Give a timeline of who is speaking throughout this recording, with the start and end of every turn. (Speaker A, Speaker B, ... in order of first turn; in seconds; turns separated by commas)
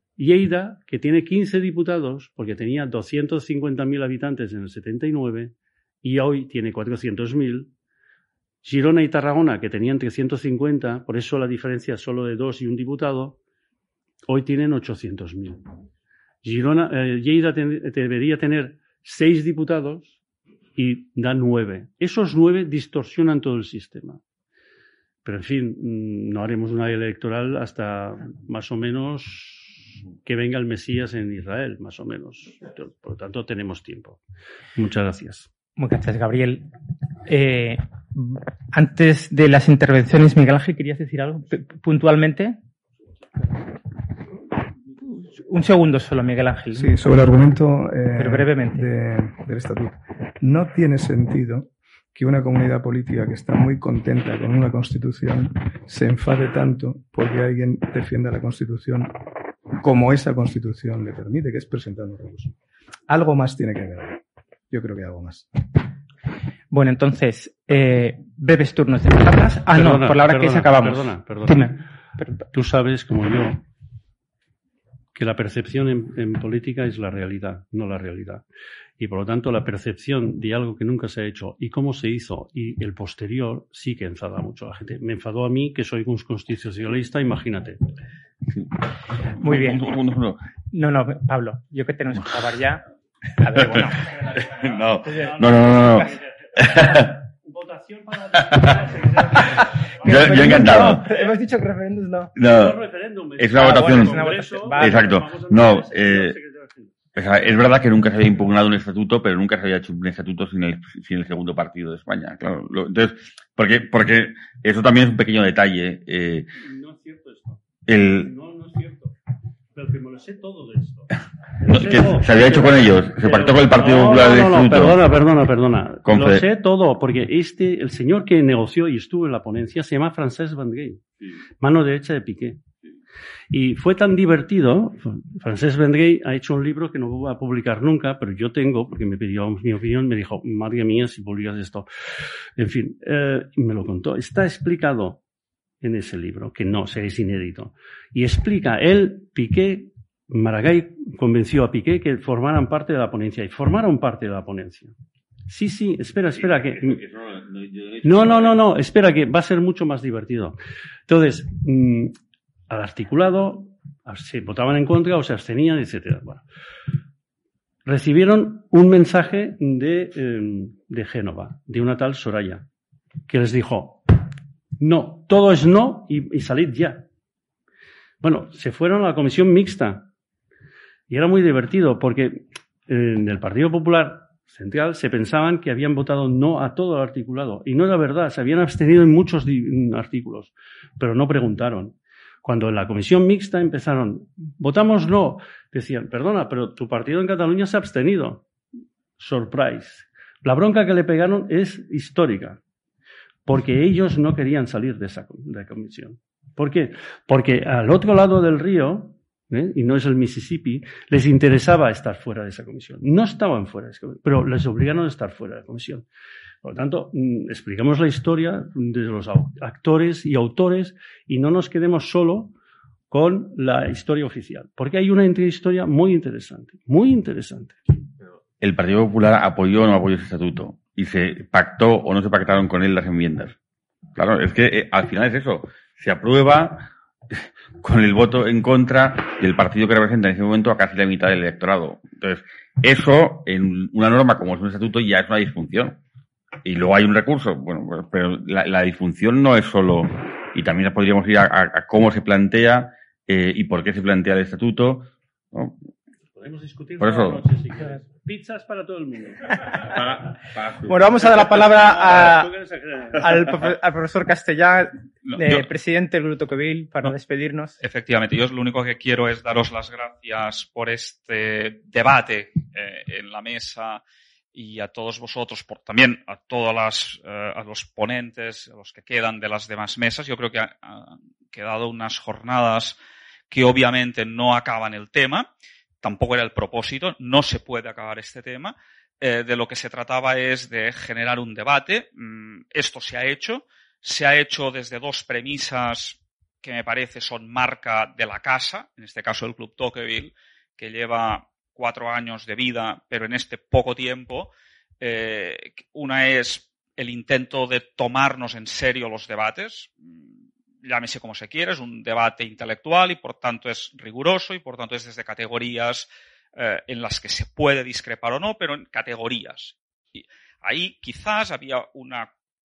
Speaker A: 0.2-7.7, Speaker A: 8.6-13.4, Speaker A: 14.2-15.7, Speaker A: 16.4-20.2, Speaker A: 20.7-24.2, Speaker A: 25.2-34.2, Speaker A: 34.8-35.5, Speaker B: 35.8-36.7, Speaker B: 37.2-42.6, Speaker B: 45.1-47.0, Speaker C: 46.7-59.1, Speaker B: 48.2-48.8, Speaker C: 59.8-62.5, Speaker C: 63.1-65.5, Speaker B: 66.7-72.4, Speaker A: 69.7-71.8, Speaker A: 72.5-73.6, Speaker A: 75.1-78.4, Speaker A: 79.0-87.8, Speaker D: 89.3-90.4, Speaker B: 89.4-89.8, Speaker B: 90.7-92.8, Speaker B: 93.3-94.0, Speaker D: 93.6-97.2, Speaker A: 94.3-101.3, Speaker D: 100.0-101.0, Speaker B: 100.0-102.3, Speaker D: 102.3-102.8, Speaker A: 102.4-106.9, Speaker D: 103.4-106.4, Speaker B: 103.5-105.1, Speaker D: 107.2-116.5, Speaker A: 116.6-117.6, Speaker D: 117.9-118.3, Speaker A: 118.2-119.2, Speaker A: 119.7-131.0, Speaker D: 121.6-125.0, Speaker D: 126.0-126.5, Speaker A: 131.6-132.6, Speaker A: 133.5-141.9, Speaker A: 142.6-145.2, Speaker A: 145.8-154.9, Speaker A: 155.5-157.0, Speaker D: 156.3-158.6, Speaker A: 158.0-162.1, Speaker A: 162.7-166.4, Speaker A: 167.8-172.7, Speaker A: 173.3-174.3, Speaker A: 174.8-177.1, Speaker A: 178.2-180.1, Speaker A: 181.1-198.5, Speaker A: 199.2-202.6, Speaker A: 203.4-216.1, Speaker A: 216.6-222.5, Speaker A: 223.1-227.8, Speaker D: 228.6-233.6, Speaker D: 234.2-246.0, Speaker D: 246.6-255.8, Speaker A: 256.4-260.0, Speaker D: 257.0-257.4, Speaker D: 259.8-260.9, Speaker B: 260.9-262.5, Speaker A: 262.0-263.3, Speaker B: 263.1-267.8, Speaker E: 265.2-265.6, Speaker E: 267.8-274.0, Speaker E: 274.5-283.0, Speaker E: 283.5-285.5, Speaker E: 286.0-310.3, Speaker E: 310.8-322.3